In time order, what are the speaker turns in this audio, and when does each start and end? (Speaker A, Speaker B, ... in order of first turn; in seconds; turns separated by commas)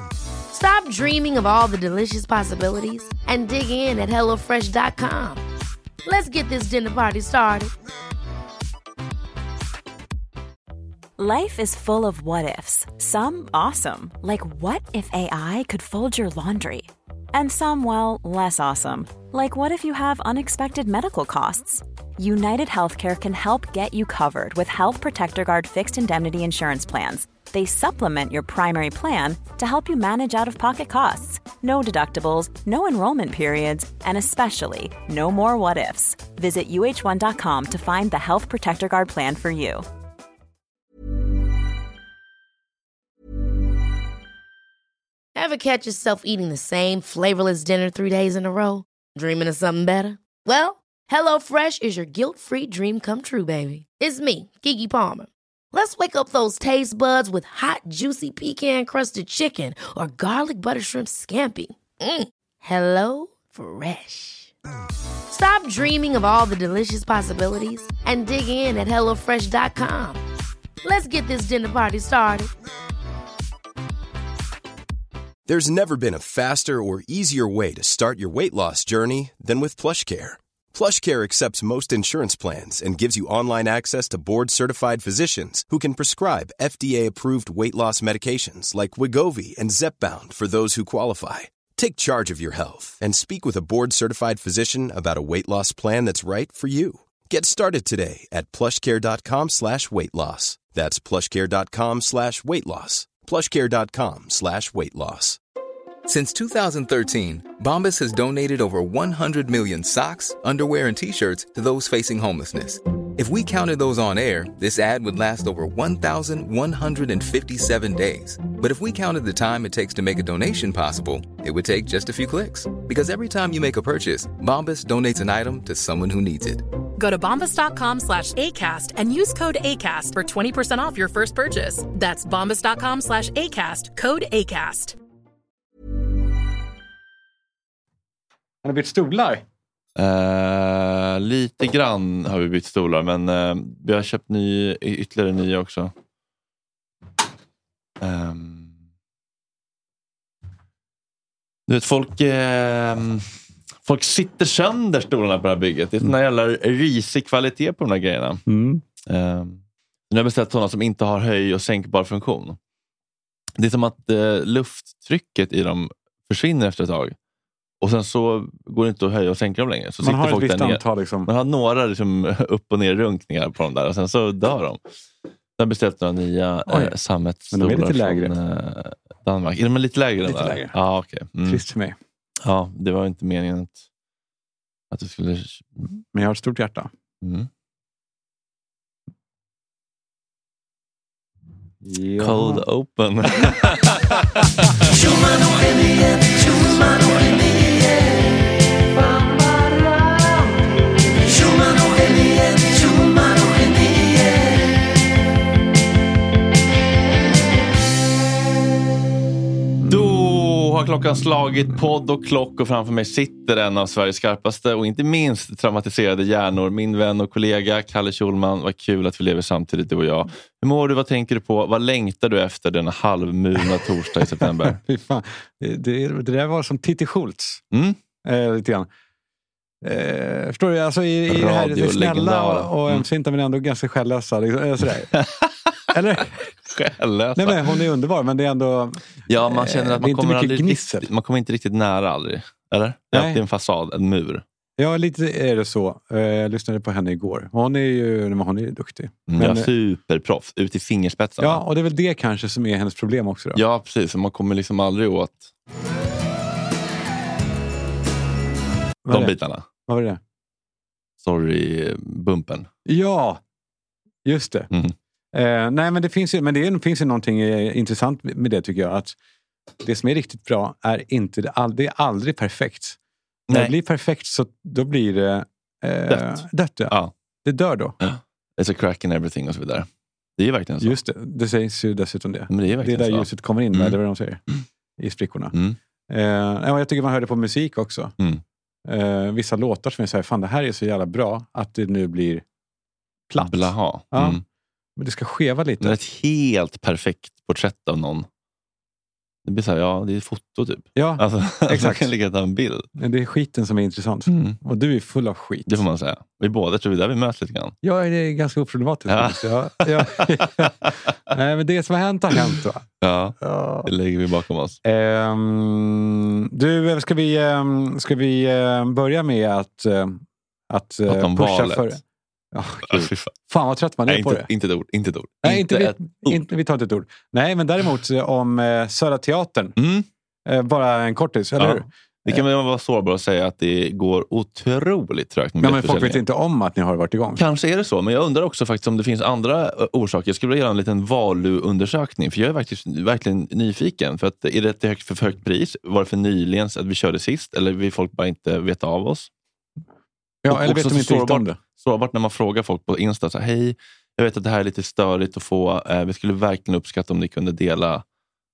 Speaker A: 0.5-5.4, Speaker A: 6.0-7.7, Speaker B: 11.2-39.9, Speaker A: 45.4-64.5, Speaker A: 65.3-70.2, Speaker A: 70.8-72.5, Speaker C: 75.5-105.4, Speaker D: 106.1-126.7, Speaker E: 127.0-135.0, Speaker F: 138.6-139.4, Speaker G: 140.0-145.9, Speaker G: 148.0-148.7, Speaker G: 151.7-153.3, Speaker G: 153.8-158.4, Speaker F: 158.5-158.8, Speaker G: 159.1-162.6, Speaker G: 163.6-167.2, Speaker G: 167.8-174.8, Speaker F: 170.0-171.3, Speaker G: 175.6-181.6, Speaker F: 176.7-176.9, Speaker F: 177.5-178.3, Speaker F: 180.2-180.8, Speaker F: 181.4-182.0, Speaker G: 182.4-183.8, Speaker G: 184.9-185.9, Speaker F: 186.1-186.9, Speaker G: 187.2-187.5, Speaker F: 191.8-192.6, Speaker G: 192.2-198.0, Speaker G: 201.3-204.5, Speaker G: 209.8-224.8, Speaker F: 224.4-227.6, Speaker G: 227.7-228.0, Speaker F: 228.2-228.9, Speaker F: 229.8-235.2, Speaker G: 231.3-233.1, Speaker G: 235.1-235.6, Speaker F: 235.9-236.5, Speaker G: 236.7-237.9, Speaker F: 237.4-241.1, Speaker G: 239.3-244.4, Speaker F: 243.1-243.4, Speaker F: 244.8-249.7, Speaker G: 249.3-251.6, Speaker F: 251.4-253.6, Speaker G: 253.6-255.5, Speaker F: 259.1-259.3, Speaker G: 259.1-259.6, Speaker F: 259.9-260.2, Speaker G: 261.2-262.7, Speaker F: 262.9-263.4, Speaker F: 264.2-264.7, Speaker F: 265.3-269.2, Speaker F: 269.8-273.0, Speaker F: 273.5-278.0, Speaker G: 276.1-277.1, Speaker G: 278.0-279.9, Speaker G: 280.4-281.0, Speaker F: 280.8-284.4, Speaker G: 282.5-284.0, Speaker F: 285.0-285.6, Speaker F: 286.1-288.1, Speaker F: 288.9-292.4, Speaker F: 293.3-294.4, Speaker G: 293.4-294.4, Speaker F: 295.0-296.0, Speaker G: 295.8-298.3, Speaker G: 299.4-302.9, Speaker F: 301.0-302.1, Speaker F: 303.0-305.8, Speaker G: 304.3-304.6, Speaker G: 305.7-307.8, Speaker F: 307.8-312.9, Speaker G: 309.1-310.9, Speaker G: 313.0-314.8, Speaker F: 313.4-313.9, Speaker F: 314.8-322.0, Speaker G: 321.1-321.9, Speaker F: 322.5-324.5, Speaker G: 322.9-323.3, Speaker G: 324.1-326.4, Speaker F: 325.4-329.8, Speaker G: 329.8-330.1, Speaker F: 330.5-332.4, Speaker G: 331.6-336.2, Speaker F: 335.6-337.4, Speaker G: 337.4-349.3, Speaker F: 350.4-351.6, Speaker G: 350.5-358.0